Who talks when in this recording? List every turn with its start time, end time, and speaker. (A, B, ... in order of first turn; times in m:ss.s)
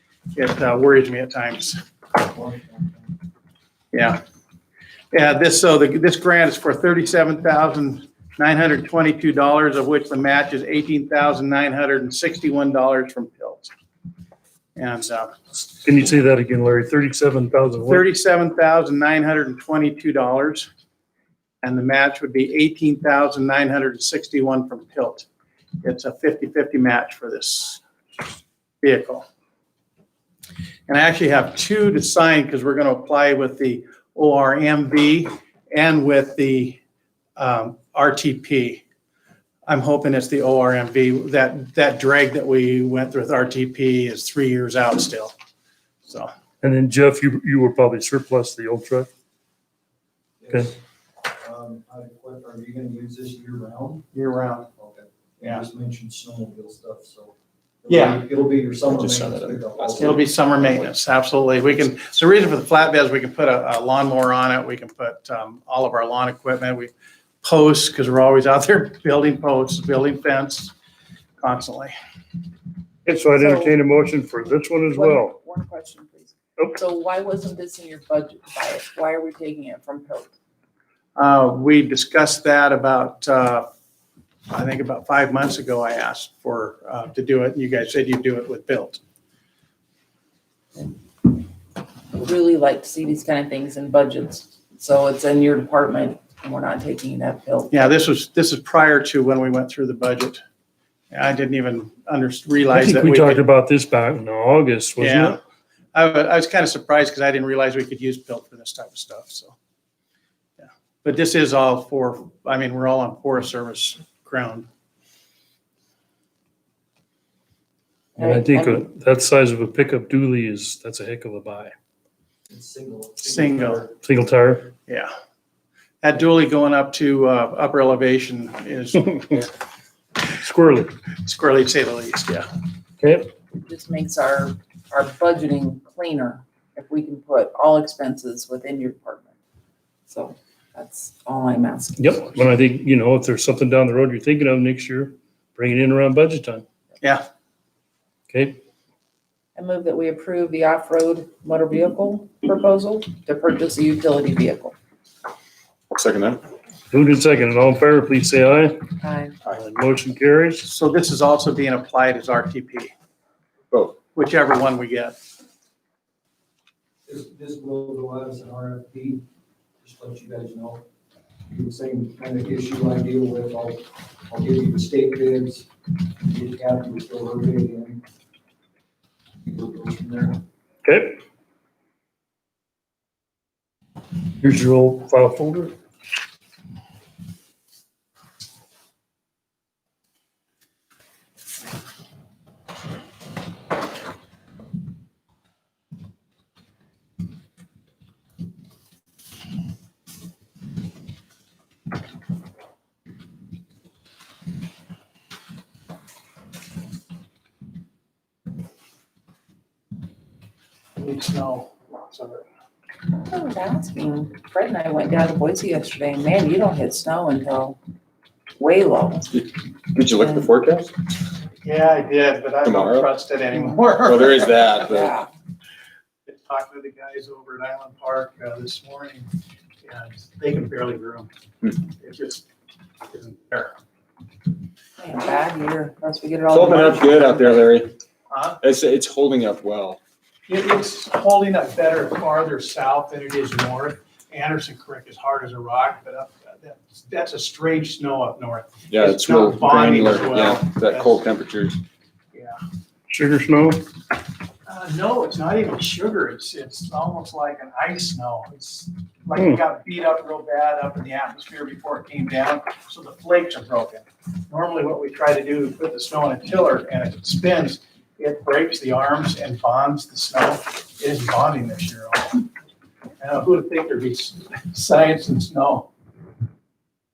0:00.3-0:01.8 A
0:02.2-0:03.1 B
0:03.9-0:04.2 A
0:05.1-0:13.7 A
0:14.8-0:15.3 A
0:15.7-0:18.0 C
0:17.8-0:20.7 A
0:21.6-0:25.3 A
0:25.8-0:27.8 A
0:28.8-0:29.2 A
0:30.9-0:36.8 A
0:37.4-0:38.8 A
0:39.7-0:45.3 A
0:46.0-0:46.3 A
0:46.6-0:49.1 C
0:50.4-0:50.8 B
0:51.3-0:54.1 B
0:54.1-0:54.7 A
0:54.7-1:00.2 B
0:57.9-0:58.2 A
0:58.9-1:00.2 D
1:00.0-1:10.7 A
1:11.4-1:11.9 A
1:13.0-1:15.4 C
1:13.3-1:13.8 E
1:14.9-1:20.3 E
1:21.2-1:23.7 A
1:24.5-1:29.0 A
1:32.1-1:37.8 E
1:37.7-1:40.4 A
1:41.1-1:43.4 A
1:42.7-1:45.4 C
1:45.0-1:45.4 A
1:45.9-1:49.5 A
1:50.6-1:54.7 A
1:58.2-1:58.8 E
1:58.2-2:01.7 C
2:02.5-2:03.9 B
2:03.2-2:03.8 A
2:04.0-2:04.7 C
2:06.0-2:09.4 A
2:10.4-2:10.9 C
2:11.2-2:12.5 A
2:13.0-2:13.3 C
2:13.5-2:19.3 E
2:20.1-2:22.5 E
2:22.0-2:26.6 C
2:28.3-2:28.6 C
2:29.6-2:34.8 E
2:35.9-2:36.4 D
2:36.9-2:38.9 C
2:39.0-2:39.4 E
2:39.4-2:40.6 C
2:40.6-2:42.9 A
2:44.1-2:45.2 A
2:47.0-2:49.2 B
2:49.8-2:50.8 B
2:51.5-2:58.0 B
2:59.4-3:00.4 B
3:00.8-3:01.2 C
3:04.4-3:05.7 C
3:31.0-3:32.4 A
3:33.2-3:37.8 E
3:38.6-3:39.4 E
3:39.9-3:40.9 D
3:41.6-3:44.6 A
3:42.6-3:43.1 D
3:43.5-3:43.8 E
3:44.0-3:45.1 D
3:44.7-3:45.3 E
3:46.2-3:49.3 A
3:49.8-3:52.4 A
3:53.1-3:53.7 A
3:55.0-3:57.8 E
3:56.5-3:57.9 D
3:58.3-3:58.6 A
3:58.6-4:00.0 D
4:00.5-4:11.2 A
4:08.9-4:11.8 D
4:13.1-4:13.8 C
4:14.6-4:32.4 A
4:19.4-4:19.6 C
4:33.2-4:35.9 A